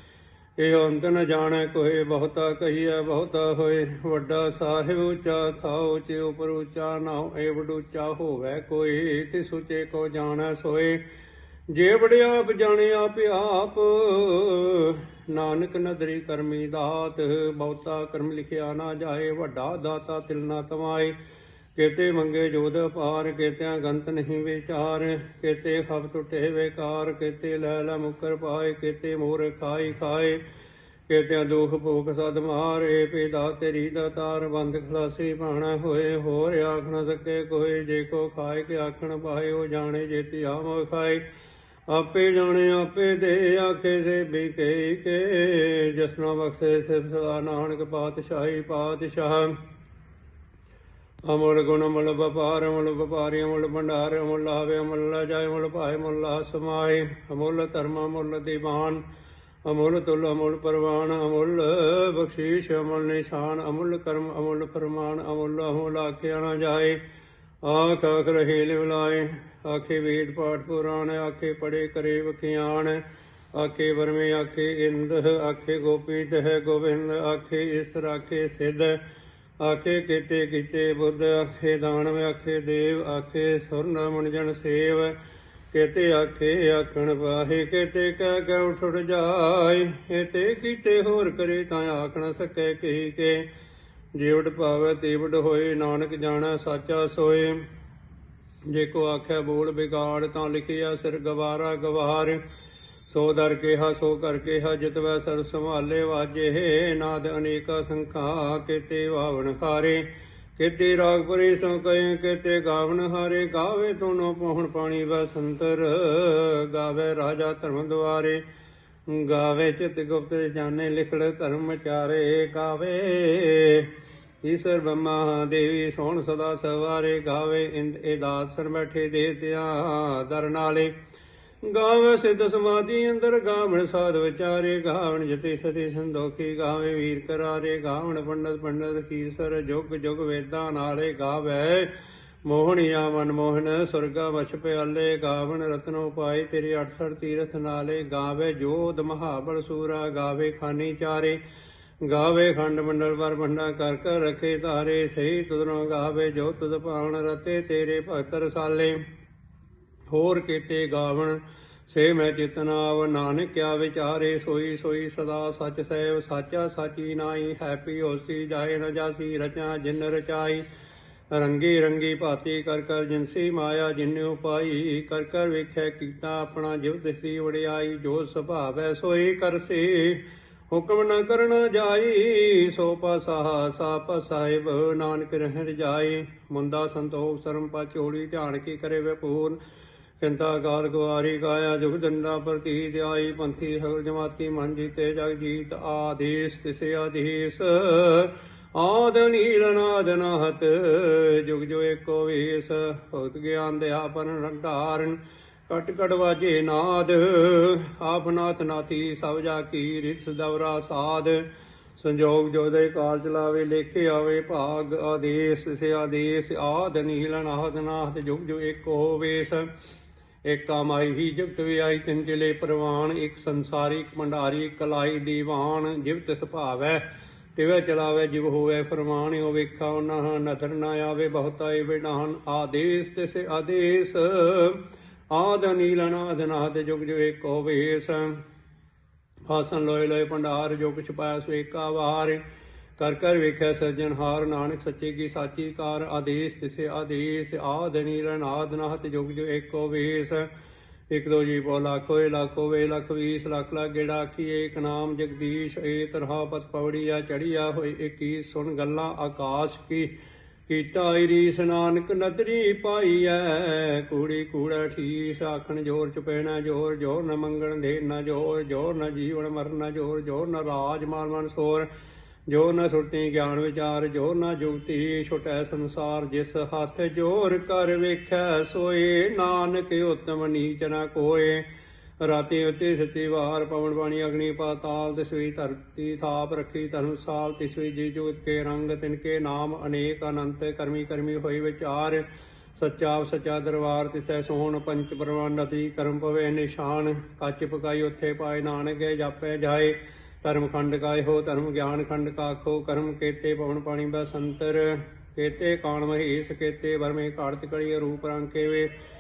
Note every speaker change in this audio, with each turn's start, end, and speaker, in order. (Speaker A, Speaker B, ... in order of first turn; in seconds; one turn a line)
Speaker A: 0.6-11.0
Speaker A: 11.7-21.1
Speaker A: 21.8-30.4
Speaker A: 31.1-41.2
Speaker A: 41.9-49.5
Speaker A: 51.2-59.0
Speaker A: 59.6-67.0
Speaker A: 67.6-73.0
Speaker A: 73.5-79.0
Speaker A: 79.6-85.2
Speaker A: 85.7-93.5
Speaker A: 94.1-97.6
Speaker A: 98.7-102.4
Speaker A: 103.1-110.0
Speaker A: 110.6-118.4
Speaker A: 119.1-123.9
Speaker A: 124.4-130.9
Speaker A: 131.6-141.9
Speaker A: 142.4-151.4
Speaker A: 152.0-159.0
Speaker A: 160.1-170.6
Speaker A: 171.3-189.6
Speaker A: 190.2-211.4
Speaker A: 212.0-219.7
Speaker A: 220.4-227.0
Speaker A: 227.5-238.4
Speaker A: 239.5-242.4
Speaker A: 243.0-250.5
Speaker A: 251.1-260.1
Speaker A: 260.7-271.9
Speaker A: 272.5-281.6
Speaker A: 282.2-292.2
Speaker A: 292.8-308.9